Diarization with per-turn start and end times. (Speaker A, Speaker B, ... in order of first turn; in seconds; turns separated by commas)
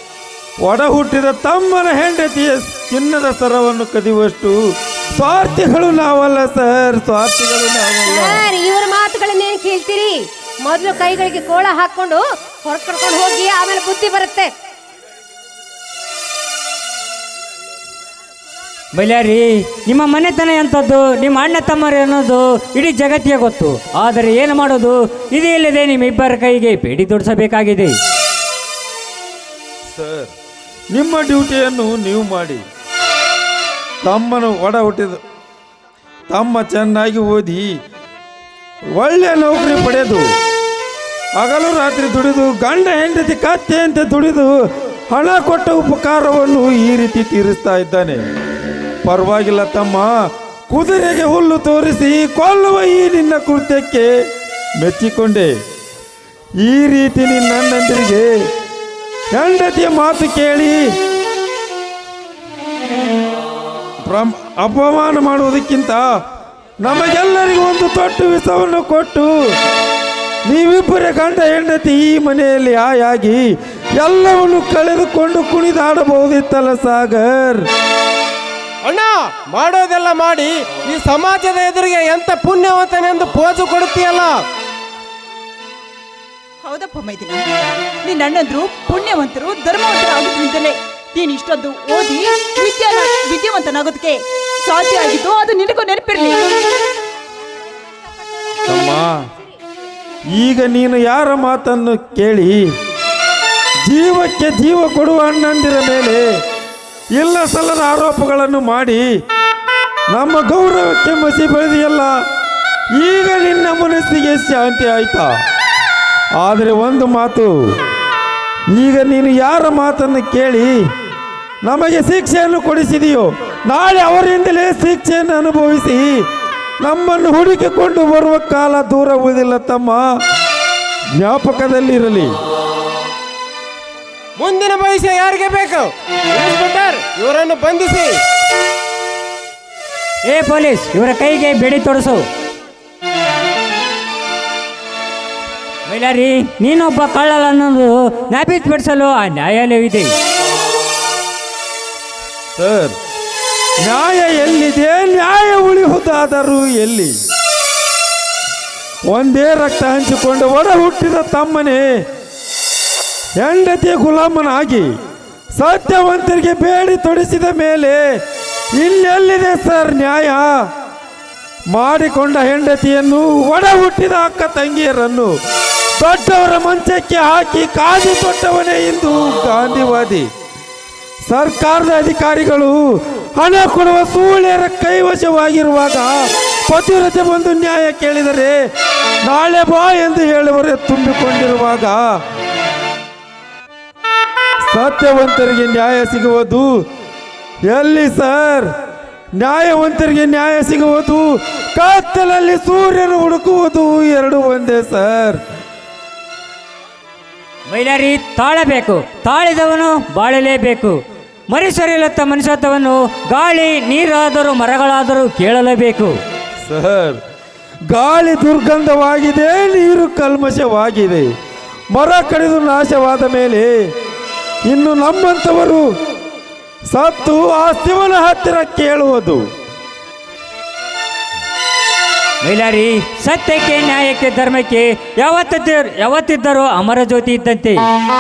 Speaker A: 0.6-4.6, Speaker A: 5.2-8.5, Speaker B: 8.1-14.5, Speaker C: 18.9-27.9, Speaker A: 29.9-30.3, Speaker A: 30.9-32.6, Speaker A: 34.0-35.2, Speaker A: 36.3-37.7, Speaker A: 39.0-40.3, Speaker A: 41.4-44.5, Speaker A: 45.1-48.2, Speaker A: 49.0-50.1, Speaker A: 50.7-54.1, Speaker A: 54.8-55.5, Speaker A: 56.6-58.3, Speaker A: 59.3-60.8, Speaker A: 64.0-66.0, Speaker A: 66.8-69.3, Speaker A: 70.5-73.4, Speaker A: 74.0-77.7, Speaker D: 78.8-84.3, Speaker E: 86.6-87.5, Speaker E: 88.0-96.4, Speaker B: 97.4-99.6, Speaker A: 98.7-99.2, Speaker A: 100.3-102.6, Speaker A: 103.8-106.2, Speaker A: 107.2-109.1, Speaker A: 110.1-112.2, Speaker A: 113.0-115.3, Speaker A: 116.4-117.5, Speaker A: 118.7-120.7, Speaker A: 121.6-126.2, Speaker A: 126.8-130.0, Speaker A: 131.2-132.3, Speaker D: 134.4-138.2, Speaker C: 140.2-142.3, Speaker C: 145.9-150.1, Speaker A: 152.6-152.9, Speaker A: 153.8-157.2, Speaker A: 159.1-162.0, Speaker A: 163.4-164.9, Speaker A: 165.6-168.0, Speaker A: 168.8-170.5, Speaker A: 171.7-175.3, Speaker A: 176.0-180.3, Speaker A: 181.3-182.8, Speaker A: 183.4-188.6, Speaker A: 189.2-192.0, Speaker A: 194.7-196.7, Speaker A: 197.7-198.7, Speaker A: 199.4-205.4, Speaker C: 207.7-211.0, Speaker C: 211.5-216.2, Speaker A: 216.7-217.2, Speaker A: 217.9-221.3, Speaker A: 221.9-223.7, Speaker A: 224.7-225.8, Speaker A: 226.9-229.4, Speaker C: 232.4-237.8